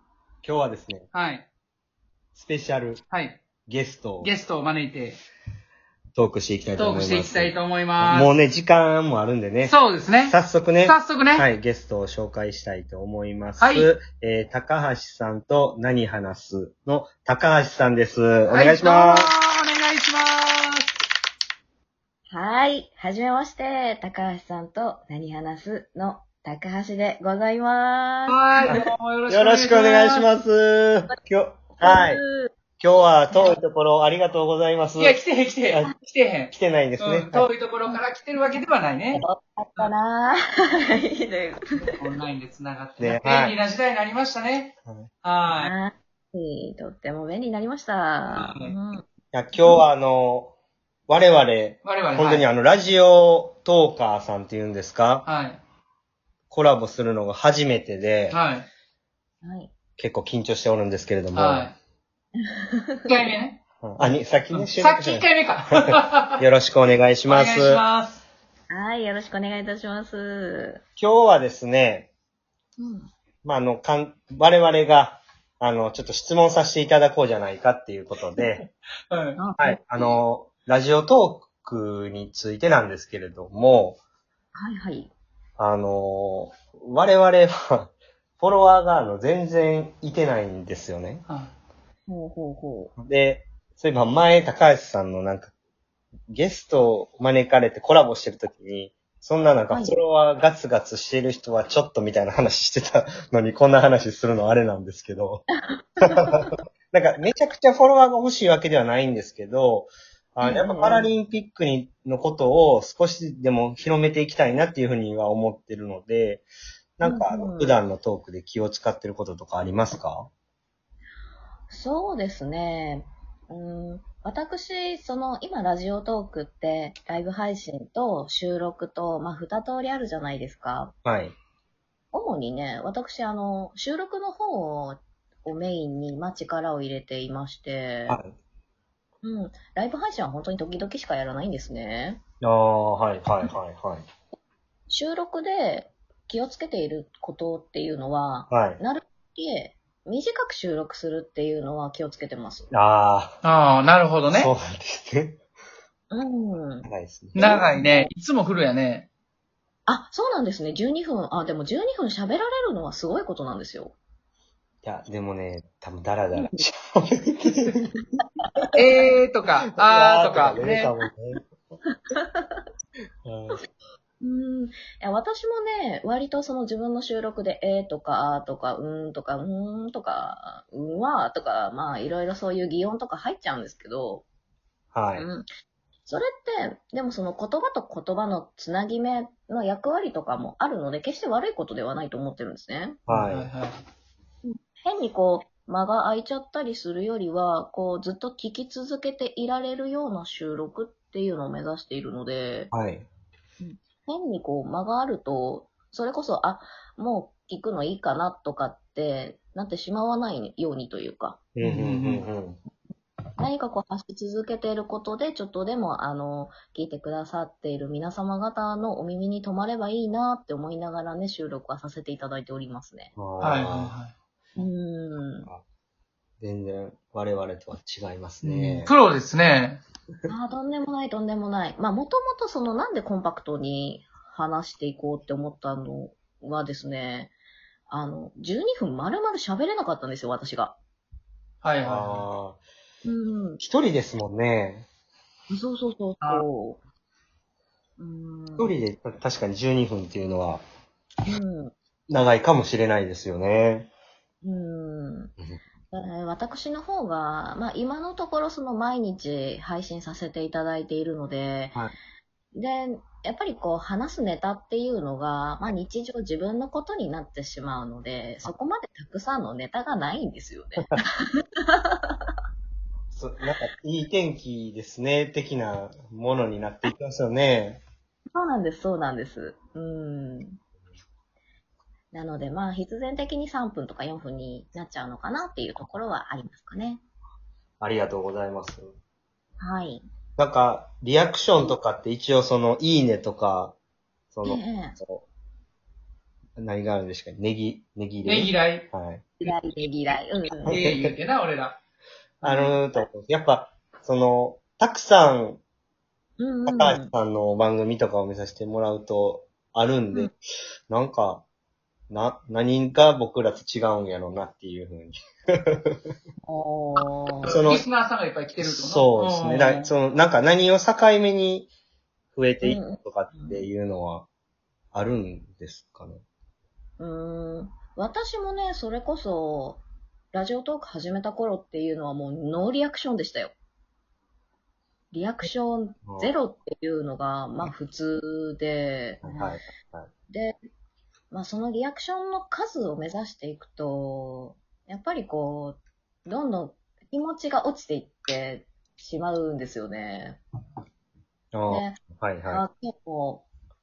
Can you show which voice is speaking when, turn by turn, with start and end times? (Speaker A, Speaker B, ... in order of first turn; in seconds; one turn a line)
Speaker A: 0.4-1.1
Speaker B: 1.1-1.5
Speaker A: 2.4-3.0
Speaker B: 3.1-3.4
Speaker A: 3.7-4.4
Speaker B: 4.2-5.2
Speaker A: 6.2-19.3
Speaker B: 6.8-8.4
Speaker B: 9.6-11.5
Speaker B: 13.6-13.9
Speaker B: 18.5-20.9
Speaker C: 22.3-28.8
Speaker B: 28.3-30.3
Speaker A: 29.3-32.2
Speaker C: 31.8-32.5
Speaker A: 32.8-35.9
Speaker C: 33.3-33.6
Speaker B: 35.0-39.2
Speaker A: 36.5-37.5
Speaker C: 37.9-38.6
Speaker C: 39.1-41.9
Speaker B: 41.8-45.7
Speaker A: 43.0-43.6
Speaker C: 45.6-49.1
Speaker B: 48.3-48.7
Speaker A: 49.3-50.5
Speaker A: 51.1-55.3
Speaker B: 51.8-52.5
Speaker B: 55.2-55.6
Speaker A: 56.5-58.4
Speaker B: 58.3-58.7
Speaker C: 59.4-59.7
Speaker A: 60.0-61.7
Speaker B: 61.3-61.8
Speaker C: 62.4-63.2
Speaker B: 63.1-63.6
Speaker A: 63.8-67.8
Speaker B: 64.5-66.4
Speaker B: 67.3-68.2
Speaker C: 68.7-70.8
Speaker A: 71.0-72.1
Speaker C: 72.8-73.1
Speaker A: 73.4-78.7
Speaker B: 79.1-79.4
Speaker C: 79.4-80.2
Speaker A: 79.6-84.0
Speaker C: 84.5-85.1
Speaker A: 85.6-91.2
Speaker B: 91.3-91.5
Speaker C: 92.1-92.9
Speaker A: 93.0-95.5
Speaker A: 96.3-105.5
Speaker C: 99.7-100.0
Speaker C: 105.6-106.5
Speaker A: 106.0-116.5
Speaker C: 110.4-111.1
Speaker A: 117.0-120.3
Speaker C: 117.0-117.8
Speaker C: 121.7-130.9
Speaker A: 131.1-131.4
Speaker C: 132.1-138.2
Speaker C: 139.2-142.2
Speaker A: 142.4-144.1
Speaker C: 144.9-152.7
Speaker A: 148.5-148.8
Speaker A: 152.7-153.4
Speaker B: 153.4-154.5
Speaker A: 154.3-155.4
Speaker C: 156.1-156.9
Speaker A: 156.9-157.6
Speaker B: 157.3-159.1
Speaker C: 157.4-158.1
Speaker C: 159.9-163.9
Speaker A: 164.8-167.9
Speaker C: 166.3-166.6
Speaker C: 168.4-168.8
Speaker B: 168.8-170.9
Speaker A: 169.8-171.5
Speaker C: 172.1-172.7
Speaker A: 173.2-173.6
Speaker C: 174.2-184.2
Speaker A: 184.9-185.3
Speaker C: 185.2-185.5
Speaker C: 186.1-193.0
Speaker A: 193.1-193.5
Speaker B: 193.1-193.8
Speaker C: 194.4-202.7
Speaker A: 202.7-203.1
Speaker C: 203.6-211.4
Speaker A: 211.6-212.6
Speaker B: 211.6-212.3
Speaker C: 213.4-223.1
Speaker A: 223.2-223.9
Speaker B: 223.4-224.1
Speaker C: 224.6-225.5
Speaker A: 226.4-228.9
Speaker B: 228.4-229.8
Speaker C: 230.3-237.3
Speaker C: 237.9-240.8
Speaker B: 241.6-242.3
Speaker A: 241.8-242.6
Speaker C: 243.1-243.6
Speaker A: 243.6-244.9
Speaker C: 245.5-246.8
Speaker C: 248.0-248.8
Speaker A: 248.6-250.6
Speaker C: 251.2-251.7
Speaker A: 252.1-253.9
Speaker C: 254.4-255.3
Speaker C: 255.9-261.8
Speaker C: 262.5-272.2
Speaker A: 273.1-277.8
Speaker C: 278.3-280.6
Speaker C: 282.1-287.0
Speaker A: 287.8-288.9
Speaker C: 289.6-290.0
Speaker A: 290.4-293.8
Speaker A: 294.3-295.2
Speaker C: 294.4-295.0
Speaker A: 296.6-299.3
Speaker B: 298.2-298.9
Speaker C: 299.4-300.8
Speaker A: 300.6-301.1
Speaker B: 300.7-301.8
Speaker A: 302.4-305.6
Speaker B: 302.5-302.7
Speaker C: 306.4-307.1
Speaker A: 306.7-310.4
Speaker A: 310.9-311.4
Speaker A: 312.1-316.0
Speaker C: 316.4-317.6
Speaker B: 317.4-319.9
Speaker A: 317.5-317.9
Speaker A: 318.6-321.7
Speaker A: 322.3-324.3
Speaker C: 322.6-323.7
Speaker A: 324.9-326.2
Speaker C: 327.0-333.5
Speaker C: 335.1-339.6
Speaker A: 336.1-336.3
Speaker A: 339.2-340.1
Speaker C: 340.3-340.6
Speaker C: 341.3-350.4
Speaker A: 351.5-352.6
Speaker C: 351.7-352.0
Speaker C: 352.5-353.4